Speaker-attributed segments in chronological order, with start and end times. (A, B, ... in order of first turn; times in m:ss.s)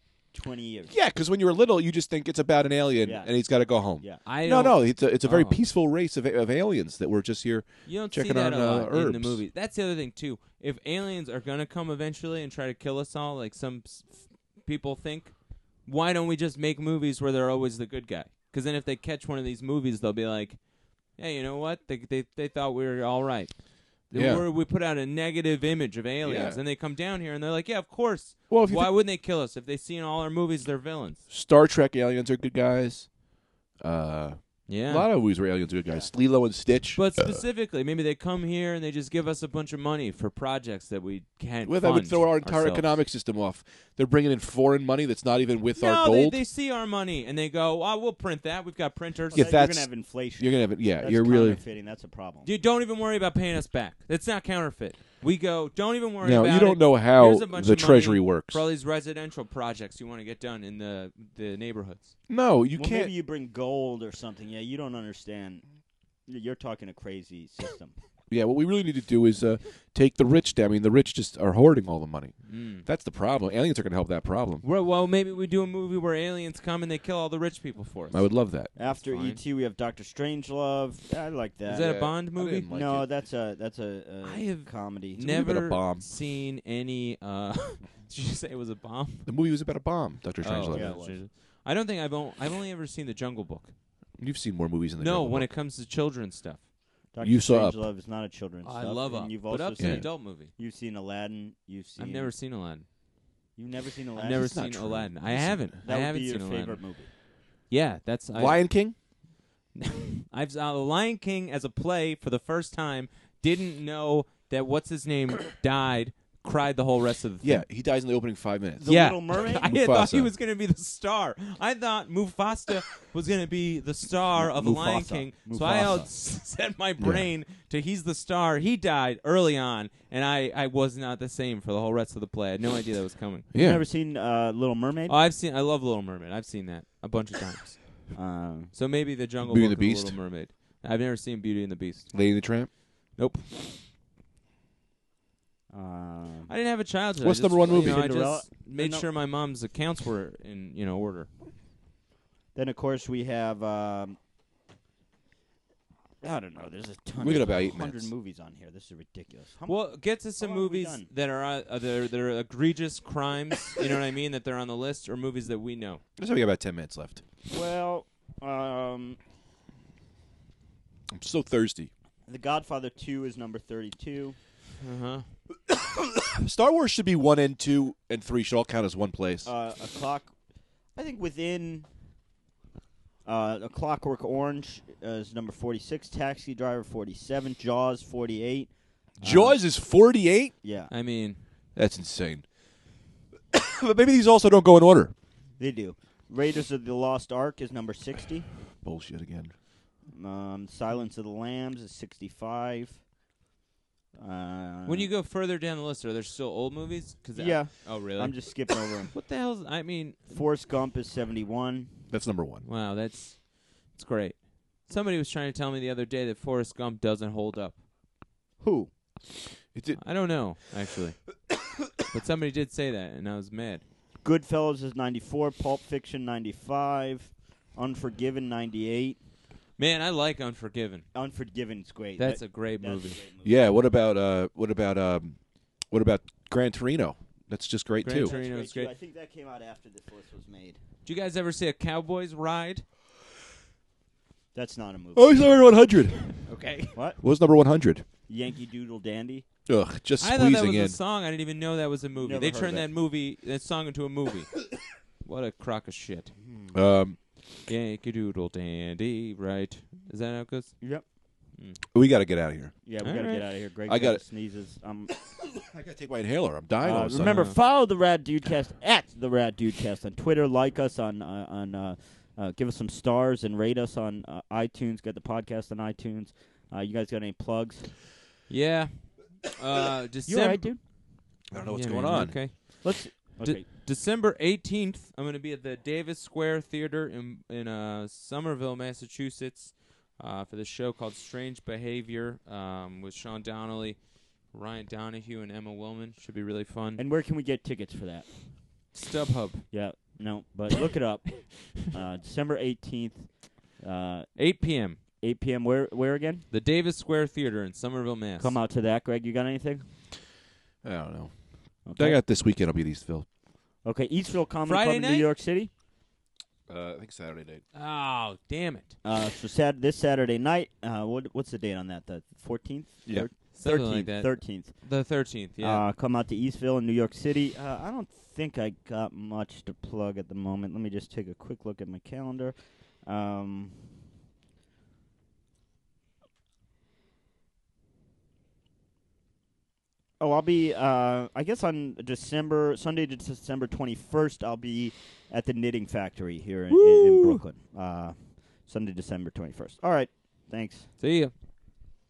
0:00.3-0:01.0 A
0:00.9-0:09.4 B
0:03.0-0:04.2 A
0:04.2-0:05.6 C
0:07.8-0:31.2 C
0:24.1-0:24.5 B
0:26.2-0:26.6 B
0:28.5-0:28.9 B
0:31.3-0:33.2 B
0:33.8-0:37.4 B
0:34.7-0:35.1 C
0:35.9-0:36.1 A
0:36.9-0:43.0 C
0:41.6-0:46.4 B
0:45.8-0:49.5 C
0:49.3-0:51.6 B
0:49.3-0:52.5 A
0:52.4-1:02.1 C
0:56.2-0:58.6 B
1:02.3-1:03.1 B
1:02.8-1:05.7 A
1:06.3-1:08.0 A
1:08.3-1:14.6 B
1:12.4-1:12.8 C
1:14.6-1:19.4 C
1:18.1-1:18.7 B
1:18.8-1:25.4 A
1:21.7-1:22.7 C
1:21.8-1:23.1 B
1:24.2-1:29.3 C
1:25.2-1:26.0 B
1:29.3-1:30.9 B
1:30.4-1:33.8 C
1:30.7-1:31.2 A
1:34.2-1:35.5 B
1:35.0-1:36.7 C
1:37.1-1:42.3 A
1:37.2-1:37.8 B
1:38.6-1:40.5 C
1:39.8-1:40.1 B
1:42.0-1:42.9 C
1:43.6-1:44.6 A
1:44.2-1:46.9 C
1:44.2-1:45.7 B
1:45.8-1:47.1 A
1:47.7-1:48.7 C
1:48.3-1:49.0 B
1:50.3-1:57.7 C
1:57.4-2:00.3 B
1:58.8-1:59.7 A
1:58.8-2:13.5 C
2:04.4-2:06.1 A
2:07.0-2:07.3 B
2:13.5-2:13.8 B
2:13.6-2:15.2 A
2:15.1-2:17.9 C
2:18.1-2:18.7 A
2:18.7-2:22.4 C
2:19.4-2:20.2 B
2:22.1-2:22.7 B
2:23.2-2:23.7 C
2:25.7-2:26.5 A
2:26.5-2:31.3 C
2:27.2-2:28.1 B
2:27.7-2:29.1 A
2:32.6-2:34.2 A
2:36.2-2:41.1 A
2:37.2-2:38.1 B
2:39.6-2:46.0 C
2:46.2-2:47.2 B
2:47.5-2:49.2 A
2:51.1-2:51.9 B
2:52.3-2:54.4 A
2:54.8-2:55.3 C
2:55.7-2:59.5 B
2:59.4-3:00.4 A
3:00.9-3:01.9 A
3:03.2-3:09.5 A
3:09.2-3:10.5 B
3:09.2-3:09.5 C
3:10.6-3:10.9 A
3:10.9-3:11.4 C
3:11.8-3:12.5 B
3:13.5-3:15.1 B
3:15.6-3:18.5 A
3:18.8-3:19.5 B
3:20.1-3:23.0 A
3:24.2-3:25.1 A
3:24.9-3:30.4 C
3:27.4-3:29.2 A
3:30.3-3:32.1 A
3:32.1-3:32.6 B
3:32.6-3:37.8 C
3:38.6-3:38.9 A
3:39.7-3:40.6 B
3:40.0-3:41.5 C
3:42.1-3:43.8 C
3:44.2-3:49.2 A
3:49.8-3:51.1 C
3:51.1-3:53.8 A
3:52.2-3:53.2 C
3:53.4-3:58.3 B
3:58.0-3:58.9 C
3:58.2-4:00.8 A
4:01.0-4:02.8 C
4:04.5-4:05.5 A
4:05.2-4:06.6 B
4:06.4-4:07.0 C
4:06.9-4:07.2 A
4:07.2-4:08.0 B
4:08.3-4:09.5 A
4:09.7-4:11.0 B
4:10.2-4:16.3 C
4:12.2-4:12.9 A
4:16.4-4:16.8 A
4:16.7-4:17.2 B
4:17.6-4:21.0 C
4:21.5-4:21.8 C
4:21.9-4:22.8 B
4:22.8-4:25.2 A
4:23.0-4:23.4 C
4:23.9-4:24.2 B
4:25.4-4:27.5 B
4:26.8-4:38.0 A
4:27.2-4:27.6 C
4:38.5-4:40.8 C
4:40.3-4:40.8 A
4:41.5-4:42.5 B
4:41.6-4:57.0 C
4:42.8-4:43.7 A
4:57.0-4:58.5 A
4:58.9-4:59.7 C
4:59.7-5:04.4 A
5:04.4-5:05.0 C
5:05.2-5:06.5 A
5:06.5-5:08.6 C
5:08.4-5:09.9 A
5:10.8-5:13.3 B
5:11.8-5:12.2 A
5:13.8-5:15.7 A
5:14.7-5:15.3 C
5:16.7-5:17.6 B
5:17.7-5:19.0 C
5:19.0-5:33.9 A
5:23.5-5:25.9 C
5:40.2-5:50.9 A
5:46.7-5:47.4 C
5:51.0-5:51.3 C